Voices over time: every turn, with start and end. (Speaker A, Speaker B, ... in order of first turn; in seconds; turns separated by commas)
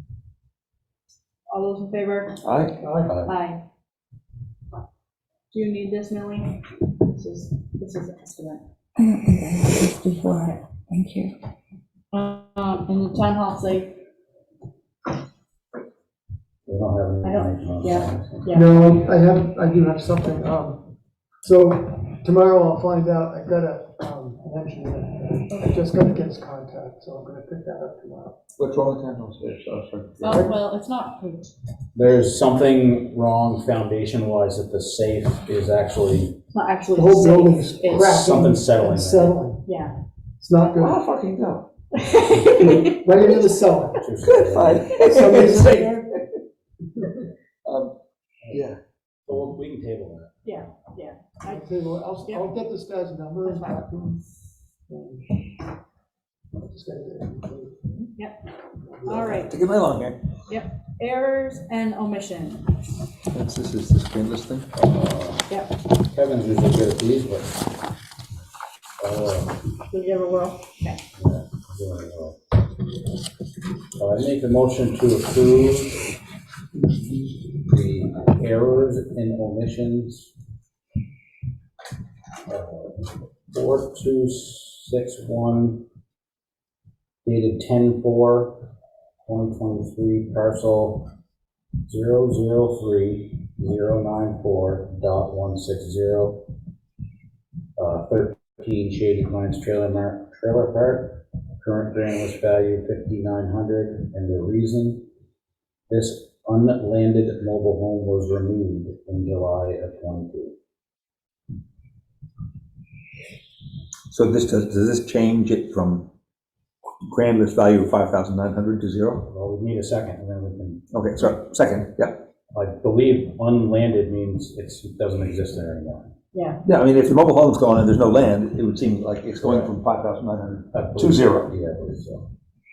Speaker A: 1.5-2.4, Speaker B: 2.4-2.8, Speaker C: 2.8-3.2, Speaker D: 3.0-3.3, Speaker A: 3.2-3.6, Speaker A: 5.5-8.6, Speaker E: 9.0-11.3, Speaker A: 10.3-10.8, Speaker A: 12.1-13.9, Speaker D: 16.7-18.5, Speaker A: 17.2-18.8, Speaker C: 18.5-20.8, Speaker C: 21.4-28.4, Speaker B: 28.6-30.5, Speaker A: 30.2-31.5, Speaker D: 31.9-36.4, Speaker A: 36.5-38.1, Speaker C: 36.9-39.6, Speaker D: 38.0-39.4, Speaker A: 39.6-39.9, Speaker C: 40.4-41.0, Speaker B: 40.7-41.7, Speaker A: 42.0-43.0, Speaker B: 42.6-42.9, Speaker C: 43.0-44.0, Speaker D: 44.0-45.0, Speaker B: 44.2-46.1, Speaker C: 45.0-46.1, Speaker B: 47.6-47.9, Speaker B: 48.5-48.8, Speaker D: 49.3-50.3, Speaker A: 50.4-51.6, Speaker C: 51.5-54.2, Speaker A: 53.4-53.8, Speaker C: 54.9-55.4, Speaker C: 56.6-57.9, Speaker C: 58.9-59.5, Speaker A: 59.0-59.5, Speaker B: 59.1-60.2, Speaker A: 60.5-62.8, Speaker B: 63.3-64.7, Speaker D: 64.7-65.4, Speaker D: 66.1-67.6, Speaker D: 69.0-69.6, Speaker A: 69.9-71.0, Speaker D: 71.2-72.4, Speaker D: 74.0-76.0, Speaker D: 77.7-80.3, Speaker D: 82.5-85.8, Speaker D: 87.2-88.7, Speaker D: 89.2-91.1, Speaker D: 91.9-96.4, Speaker D: 97.8-105.0, Speaker D: 105.9-110.5, Speaker B: 114.1-116.1, Speaker B: 117.0-119.3, Speaker D: 119.2-120.8, Speaker B: 120.9-122.2, Speaker D: 122.5-126.1, Speaker A: 126.3-126.6, Speaker B: 126.6-131.5, Speaker D: 129.4-129.7, Speaker D: 130.7-132.2